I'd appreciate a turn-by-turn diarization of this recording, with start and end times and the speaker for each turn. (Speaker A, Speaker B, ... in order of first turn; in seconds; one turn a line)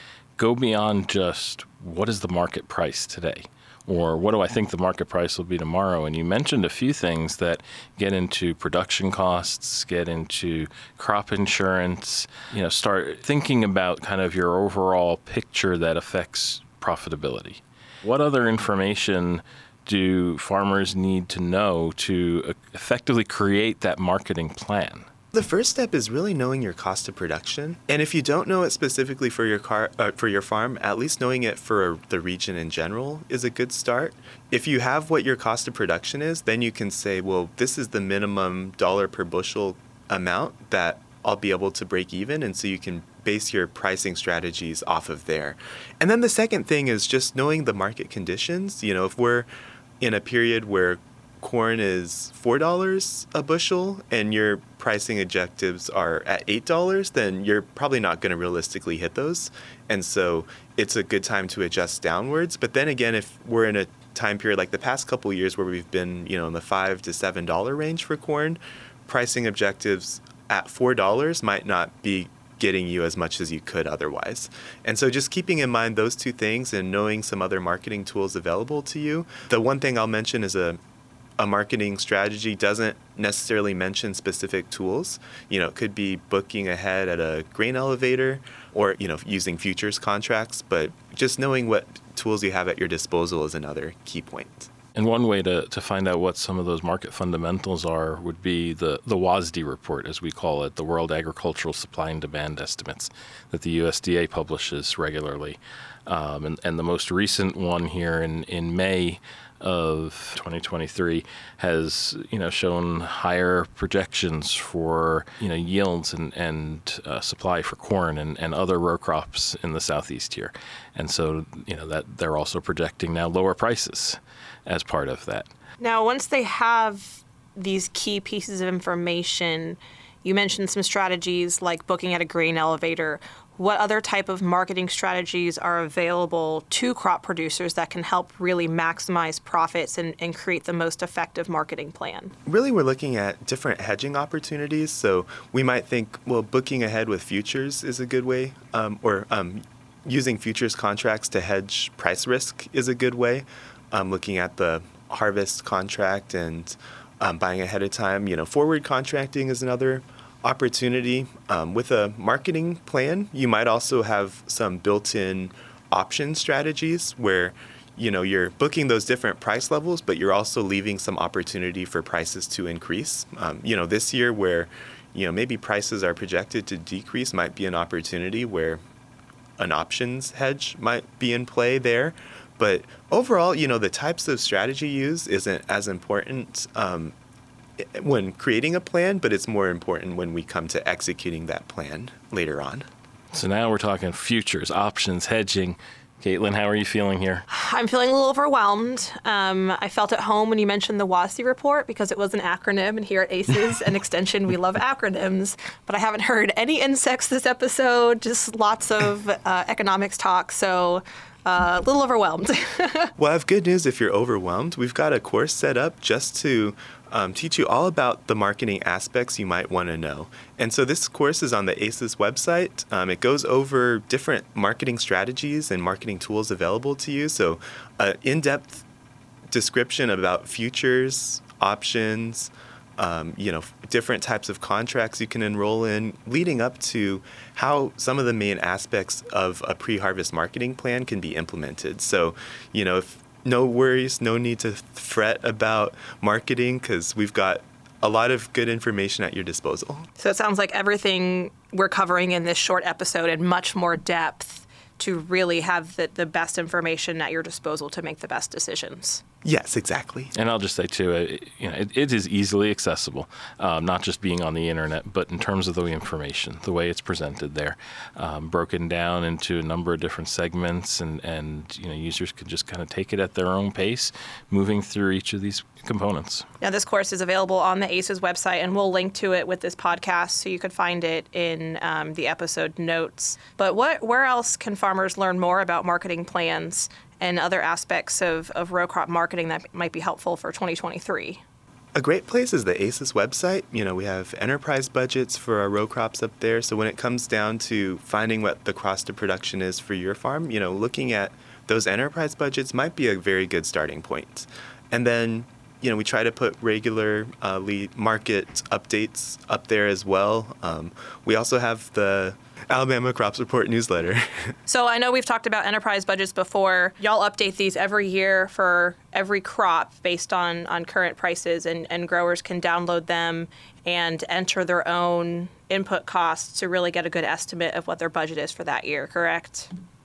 Speaker A: 0.4-25.1
Speaker B: 25.3-49.5
Speaker B: 50.0-80.8
Speaker B: 81.4-94.7
Speaker A: 94.9-125.5
Speaker C: 125.8-142.3
Speaker B: 142.4-178.8
Speaker B: 179.6-187.1
Speaker B: 187.8-192.8
Speaker A: 193.3-197.4
Speaker C: 197.5-213.1
Speaker B: 213.2-228.8
Speaker B: 229.5-250.1
Speaker C: 250.2-259.2
Speaker B: 259.4-260.3
Speaker A: 260.4-276.4
Speaker C: 276.6-291.4
Speaker B: 291.9-314.2
Speaker C: 314.7-329.7